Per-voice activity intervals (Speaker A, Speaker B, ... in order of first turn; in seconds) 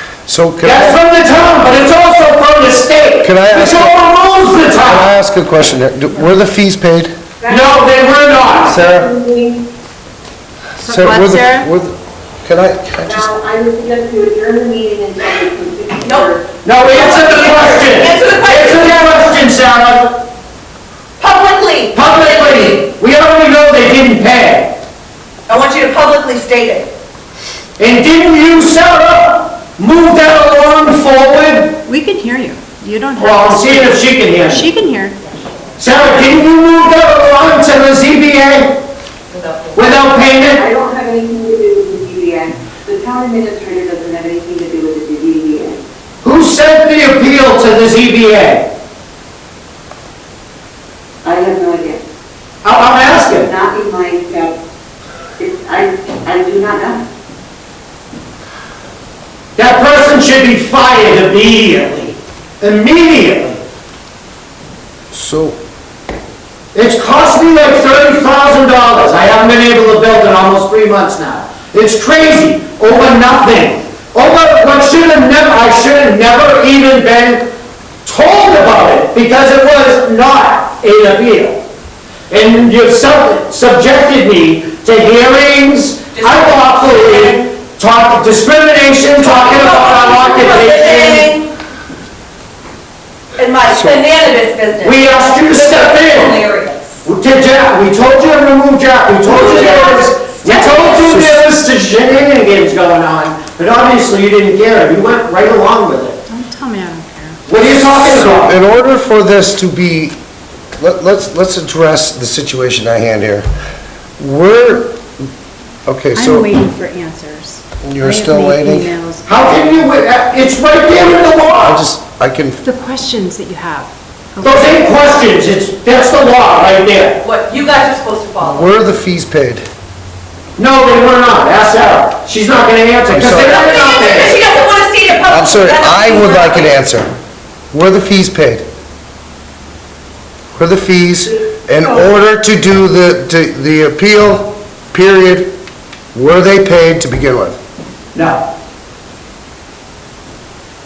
Speaker A: 0.3-1.0, 3.2-4.1, 4.8-7.1, 8.7-9.1, 10.8-13.3, 65.1-65.6, 93.7-94.0, 101.1-101.4, 108.0-110.2, 110.8-113.5, 114.2-115.1, 115.9-116.5, 117.8-118.9, 121.5-122.6, 128.4-129.7, 133.1-133.8, 135.3-137.1, 137.7-138.7, 140.6-145.5, 146.1-147.6
Speaker B: 0.6-5.1, 7.5-8.8, 16.6-20.2, 21.9-24.8, 27.8-31.8, 33.2-34.7, 35.8-38.8, 39.8-40.6, 46.2-48.7, 52.6-53.5, 59.6-63.6, 66.7-77.5, 78.0-81.6, 82.3-91.3, 94.8-96.4, 97.0-106.2, 107.5-108.6, 119.3-121.8, 124.4-127.2, 130.6-134.4, 148.1-148.4
Speaker C: 7.4-9.7, 13.1-16.5, 40.5-45.8, 51.2-52.0, 53.4-54.6, 55.4-57.0
Speaker D: 10.8-11.7, 31.9-35.2, 106.3-107.4, 116.2-120.0, 122.6-124.9
Speaker E: 16.0-16.3, 16.9-19.4, 21.2-22.9, 25.5-26.9, 39.3-39.8, 86.1-87.4, 89.2-91.5, 93.4-97.0, 99.2-101.3, 127.2-128.7, 133.3-136.7